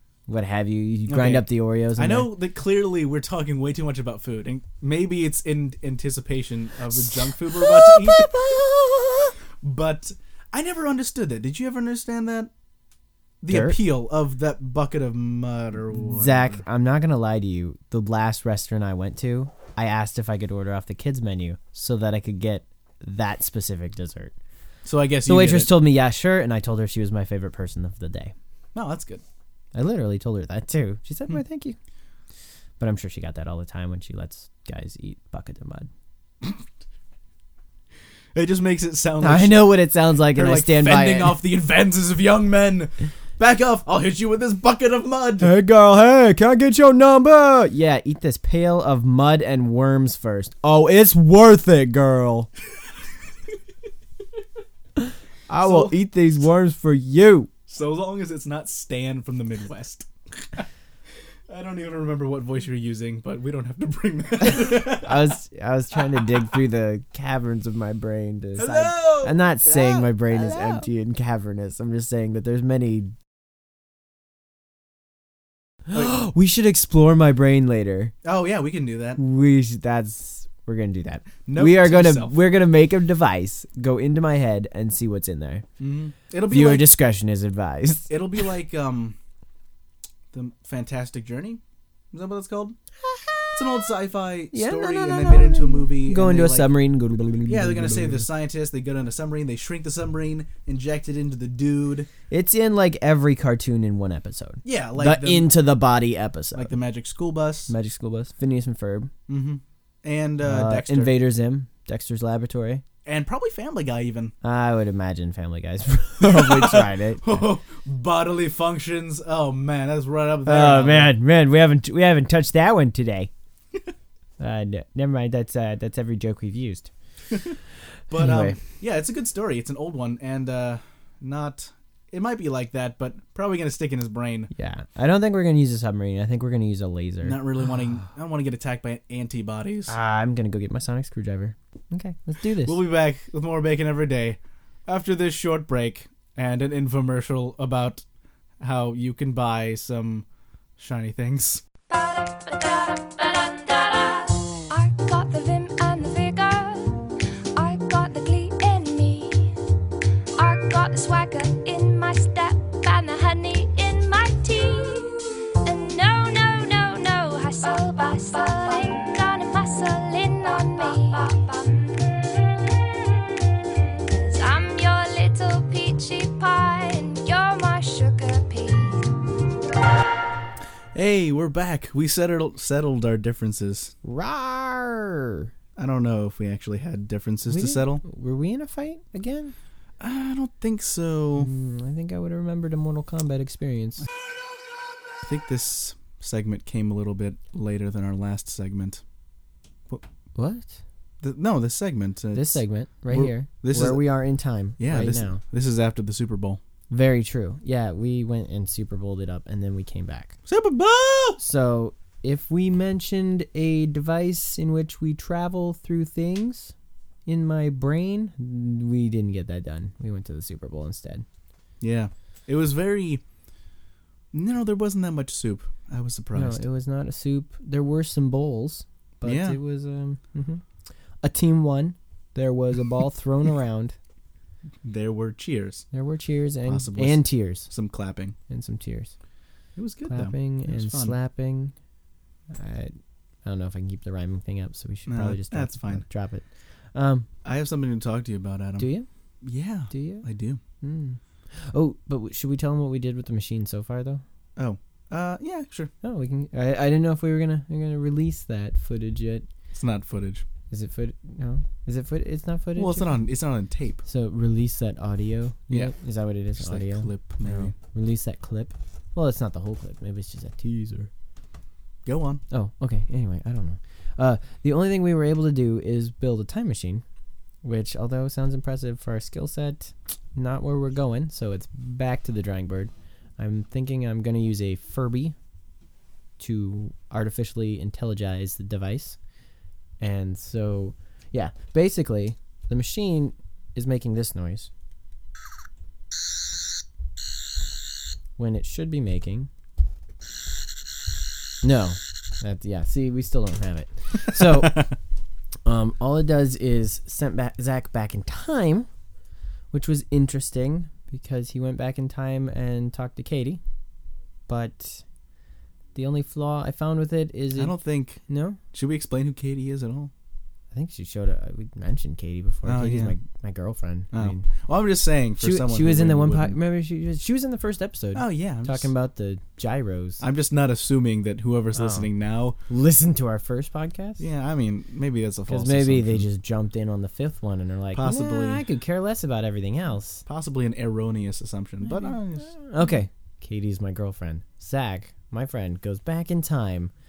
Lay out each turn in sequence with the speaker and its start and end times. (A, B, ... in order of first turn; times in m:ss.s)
0:00.3-0:02.3 A
0:01.1-0:08.3 B
0:06.9-0:09.4 A
0:09.6-0:12.5 B
0:13.4-0:16.6 B
0:13.5-0:13.8 A
0:16.0-0:24.3 A
0:24.8-0:25.7 B
0:25.2-0:28.3 A
0:28.7-0:29.2 B
0:29.7-0:31.8 A
0:32.8-0:35.9 A
0:38.3-0:39.7 B
0:39.2-0:41.4 A
0:40.3-0:45.5 B
0:45.4-0:52.5 A
0:55.0-0:57.5 A
0:55.6-0:56.0 B
0:57.7-1:00.6 B
1:01.5-1:05.3 B
1:04.4-1:13.1 A
1:08.6-1:10.9 B
1:15.9-1:18.1 A
1:18.2-1:19.2 B
1:19.2-1:25.6 A
1:21.4-1:22.4 B
1:25.8-1:26.9 B
1:26.5-1:28.1 A
1:28.1-1:29.2 B
1:30.3-1:31.6 B
1:32.1-1:32.8 B
1:33.5-1:36.7 B
1:34.5-1:38.3 A
1:37.4-1:42.1 B
1:42.3-1:46.7 A
1:44.6-1:45.5 B
1:46.5-1:47.7 B
1:47.7-1:49.1 A
1:49.3-1:51.1 B
1:50.4-1:52.8 A
1:53.0-1:54.3 B
1:54.4-1:57.4 A
1:56.2-2:01.1 B
2:00.4-2:03.3 A
2:04.4-2:06.9 A
2:08.1-2:14.5 B
2:08.1-2:08.6 A
2:14.5-2:17.4 A
2:17.2-2:20.0 B
2:19.9-2:22.8 A
2:22.6-2:28.0 B
2:28.6-2:30.2 B
2:30.8-2:31.6 B
2:31.9-2:39.5 C
2:40.4-2:59.1 C
3:00.9-3:03.9 B
3:04.0-3:05.5 A
3:05.8-3:08.0 B
3:07.5-3:09.5 A
3:10.0-3:11.5 B
3:11.4-3:14.0 A
3:15.2-3:19.0 B
3:20.3-3:20.7 A
3:21.2-3:24.0 B
3:22.3-3:25.4 A
3:24.8-3:26.6 B
3:26.9-3:30.4 A
3:30.4-3:31.4 B
3:31.4-3:36.7 A
3:37.2-3:41.2 A
3:41.8-3:43.2 B
3:44.3-3:46.6 B
3:46.3-3:50.6 A
3:49.2-3:49.6 B
3:51.2-3:54.0 A
3:54.8-3:55.8 B
3:55.9-3:57.7 A
3:56.6-3:58.4 B
3:58.5-3:59.1 A
3:59.8-4:01.1 B
4:00.1-4:01.7 A
4:02.5-4:02.9 A
4:03.4-4:07.3 A
4:05.1-4:06.0 B
4:07.4-4:08.9 B
4:08.8-4:09.1 A
4:09.4-4:10.6 B
4:09.9-4:10.2 A
4:10.8-4:14.2 A
4:14.6-4:15.9 B
4:16.0-4:19.5 A
4:19.7-4:20.4 B
4:20.7-4:23.2 A
4:22.8-4:24.0 B
4:24.0-4:31.1 A
4:26.6-4:27.7 B
4:32.0-4:32.4 B
4:32.5-4:37.0 A
4:37.6-4:45.3 A
4:46.4-4:49.2 A
4:50.0-4:54.7 A
4:58.4-4:59.5 A
5:01.6-5:04.9 A
5:05.6-5:08.9 A
5:09.7-5:13.6 A
5:14.5-5:15.0 A
5:15.9-5:17.8 A
5:17.6-5:18.2 B
5:18.3-5:18.6 A
5:18.7-5:20.1 B
5:20.7-5:24.4 A
5:22.6-5:23.2 B
5:24.1-5:26.6 B
5:25.4-5:30.2 A
5:28.1-5:28.9 B
5:30.2-5:32.6 B
5:31.7-5:32.1 A
5:32.7-5:34.2 A
5:34.2-5:36.3 B
5:35.5-5:40.2 A
5:37.9-5:38.6 B
5:40.2-5:42.6 B
5:41.9-5:46.9 A